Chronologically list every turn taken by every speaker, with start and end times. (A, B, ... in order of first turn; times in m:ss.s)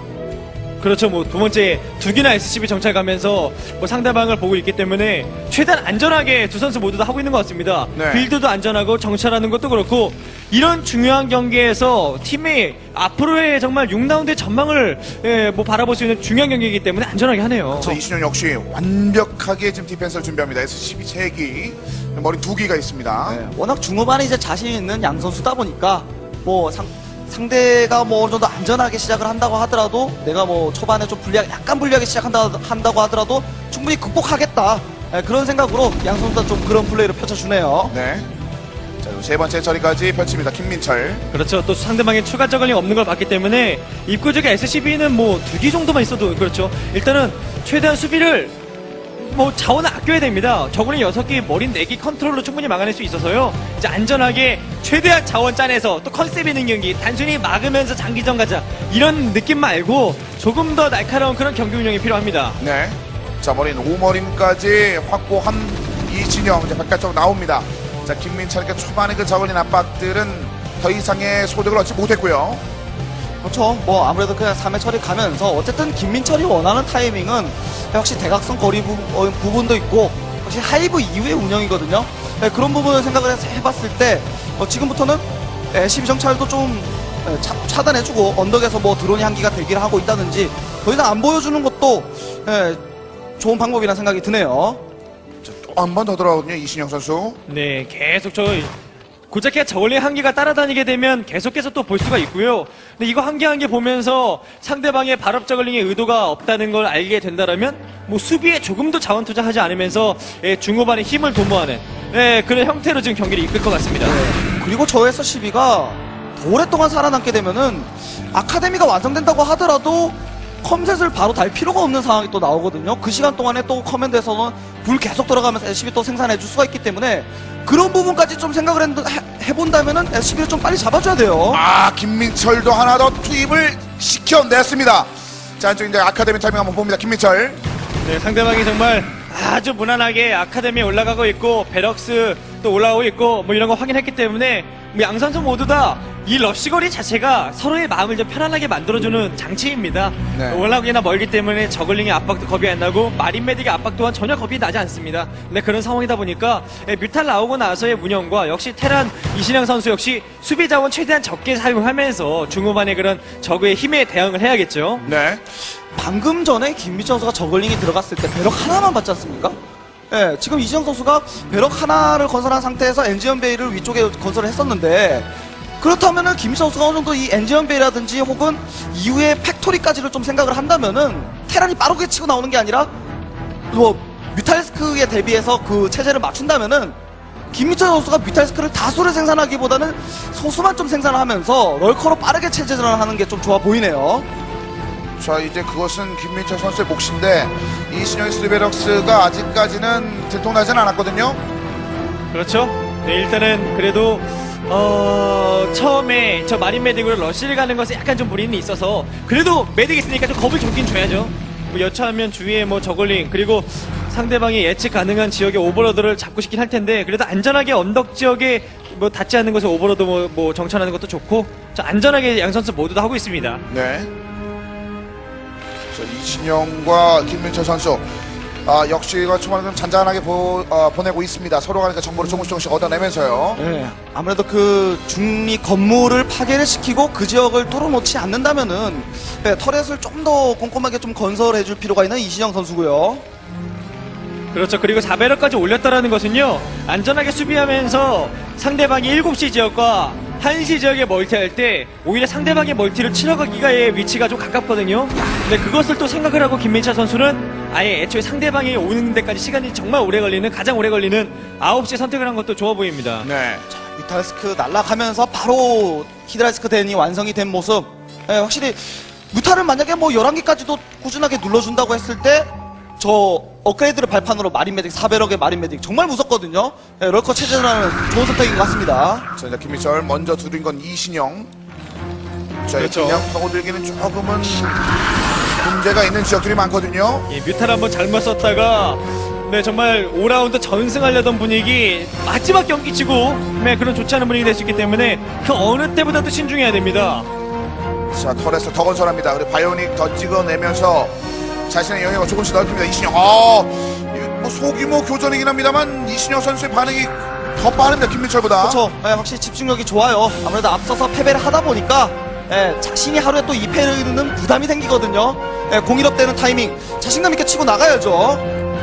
0:00.8-0:18.0 A
0:08.0-0:08.3 B
0:17.8-0:23.4 B
0:23.3-0:38.0 C
0:37.9-0:38.3 B
0:39.0-0:41.2 B
0:41.3-0:48.5 A
0:49.2-1:02.6 A
1:02.6-1:12.6 B
1:13.4-1:32.8 C
1:33.4-1:34.8 C
1:35.4-1:37.4 B
1:37.5-1:38.7 A
1:39.3-1:54.2 A
1:54.0-2:11.6 C
2:11.5-2:17.6 B
2:18.0-2:45.1 A
2:30.3-2:30.6 B
2:45.0-2:45.5 B
2:45.9-2:49.6 C
2:50.1-2:55.3 C
2:55.8-3:02.9 C
3:03.7-3:07.0 C
3:07.5-3:14.3 C
3:15.2-3:21.4 B
3:22.3-3:43.6 A
3:43.7-3:44.1 B
3:45.9-3:48.1 B
3:48.6-3:53.6 B
3:53.6-4:03.2 C
4:04.5-4:23.3 A
4:23.2-4:23.7 B
4:23.7-4:39.3 C
4:39.3-4:41.5 B
4:42.6-4:44.9 B
4:42.8-4:43.2 A
4:45.6-4:47.3 B
4:47.3-4:57.3 A
4:58.1-5:01.1 B
5:01.7-5:08.8 B
5:08.6-5:18.4 C